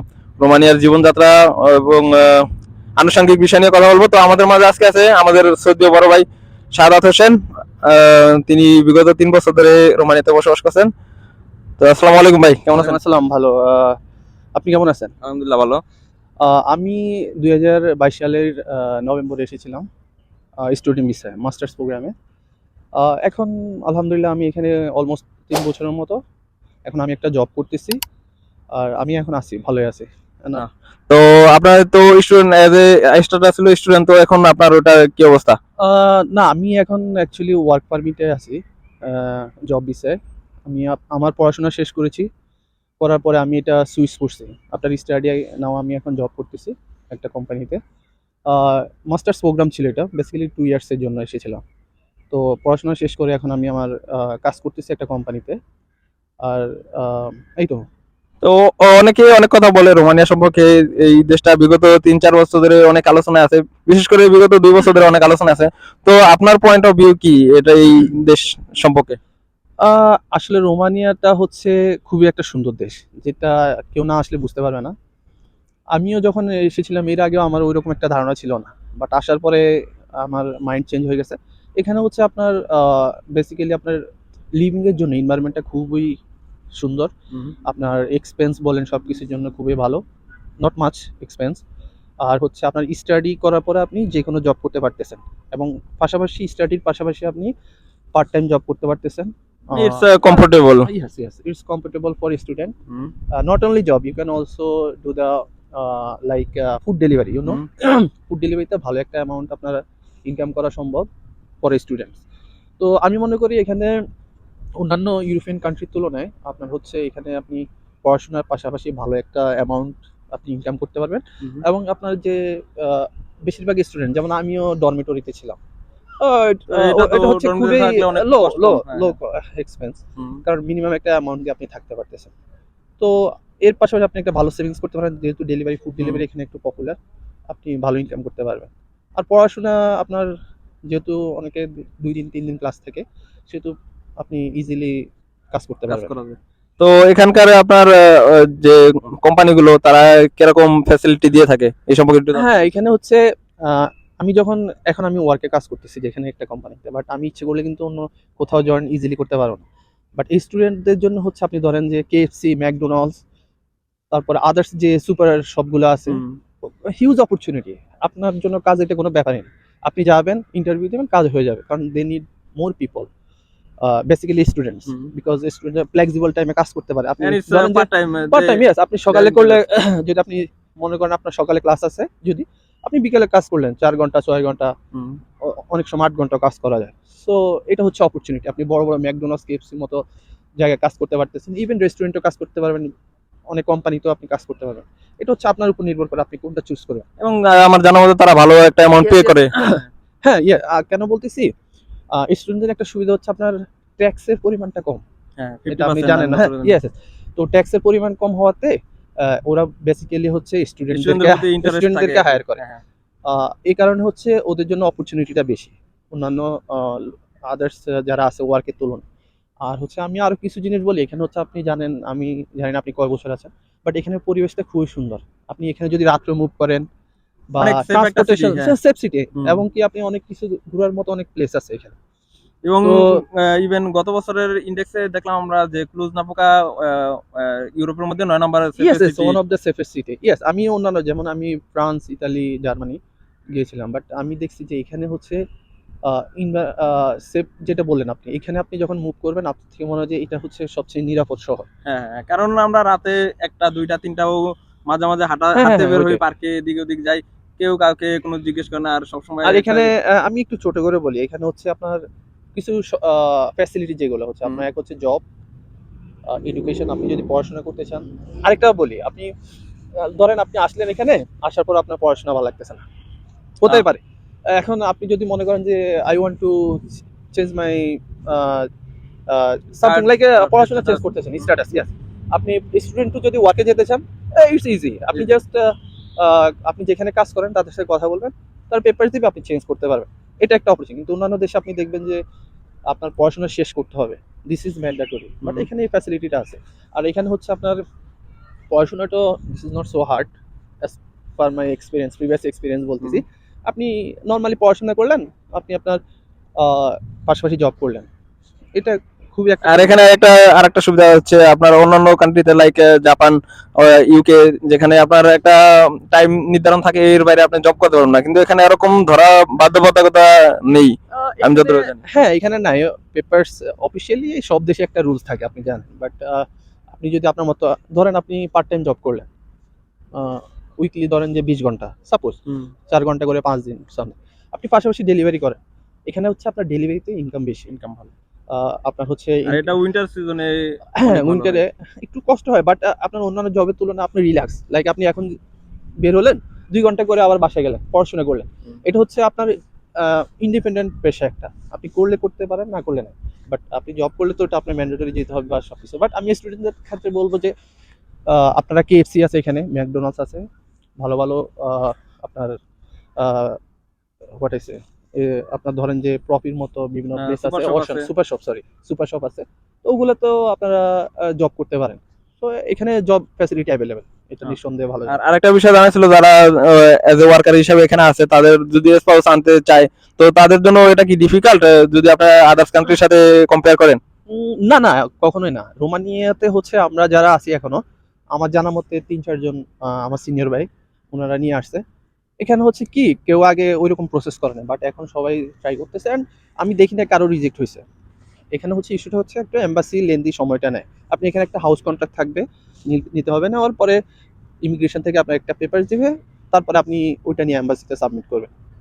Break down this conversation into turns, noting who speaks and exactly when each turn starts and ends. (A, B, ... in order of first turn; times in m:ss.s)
0:00.4-0:10.9 A
0:11.8-0:13.0 A
0:12.8-0:14.0 B
0:14.6-0:15.1 B
0:15.2-0:15.8 A
0:16.4-0:19.8 B
0:20.6-0:22.1 B
0:23.0-0:26.2 B
0:26.8-0:28.0 B
0:28.7-0:30.6 B
0:30.5-0:35.6 A
0:35.8-0:42.3 B
0:43.0-0:47.8 B
0:48.5-0:51.6 B
0:52.3-0:55.6 B
0:56.4-0:57.8 B
0:58.4-1:09.2 A
1:09.8-1:14.9 B
1:15.9-1:19.6 B
1:20.2-1:24.0 B
1:24.6-1:26.2 B
1:26.8-1:27.1 B
1:27.6-1:30.0 B
1:30.6-1:31.6 B
1:32.2-1:37.5 B
1:38.1-1:42.7 B
1:39.7-1:40.9 A
1:43.3-1:51.1 B
1:51.6-1:52.2 B
1:52.8-1:53.9 B
1:54.8-2:05.6 B
2:06.2-2:12.3 B
2:06.7-2:09.1 A
2:10.2-2:10.4 A
2:13.0-2:17.0 B
2:17.5-2:20.3 B
2:20.9-2:26.1 B
2:25.9-2:32.5 A
2:32.3-2:39.6 B
2:40.2-2:43.2 B
2:44.1-2:53.1 B
2:46.1-2:46.4 A
2:53.8-3:04.7 B
2:57.2-2:59.6 A
3:04.9-3:05.2 A
3:05.4-3:10.0 B
3:10.6-3:12.9 B
3:13.5-3:17.0 B
3:17.2-3:19.5 A
3:19.0-3:21.5 B
3:22.2-3:25.0 B
3:25.4-3:26.8 A
3:25.7-3:32.6 B
3:30.9-3:32.8 A
3:33.3-3:39.0 B
3:39.6-3:46.8 B
3:47.5-3:51.9 B
3:47.6-3:48.7 A
3:52.6-3:59.4 A
3:52.8-3:53.2 B
3:58.8-4:03.0 B
4:03.5-4:05.4 B
4:06.0-4:11.7 B
4:11.9-4:19.9 A
4:15.5-4:16.2 B
4:19.4-4:22.0 B
4:22.5-4:25.2 B
4:26.3-4:29.3 B
4:30.0-4:32.8 B
4:33.6-4:34.0 B
4:34.5-4:38.7 B
4:39.3-4:52.2 B
4:39.8-4:41.1 A
4:52.9-4:57.8 B
4:55.4-4:55.7 A
4:58.7-5:00.3 B
5:00.8-5:06.0 B
5:06.6-5:08.1 B
5:08.8-5:10.0 B
5:09.6-5:15.6 A
5:16.1-5:22.0 A
5:21.1-5:29.2 B
5:30.1-5:32.4 B
5:32.9-5:37.7 B
5:37.7-5:38.1 A
5:38.5-5:39.7 B
5:39.4-5:41.6 A
5:41.0-5:45.3 B
5:46.0-5:57.5 B
5:58.3-6:00.4 B
6:01.0-6:02.5 B
6:03.2-6:03.6 B
6:04.4-6:15.1 B
6:07.2-6:08.1 A
6:15.1-6:24.0 A
6:24.3-6:27.8 B
6:28.3-6:31.8 B
6:32.4-6:37.8 B
6:38.5-6:44.0 B
6:44.6-6:48.5 B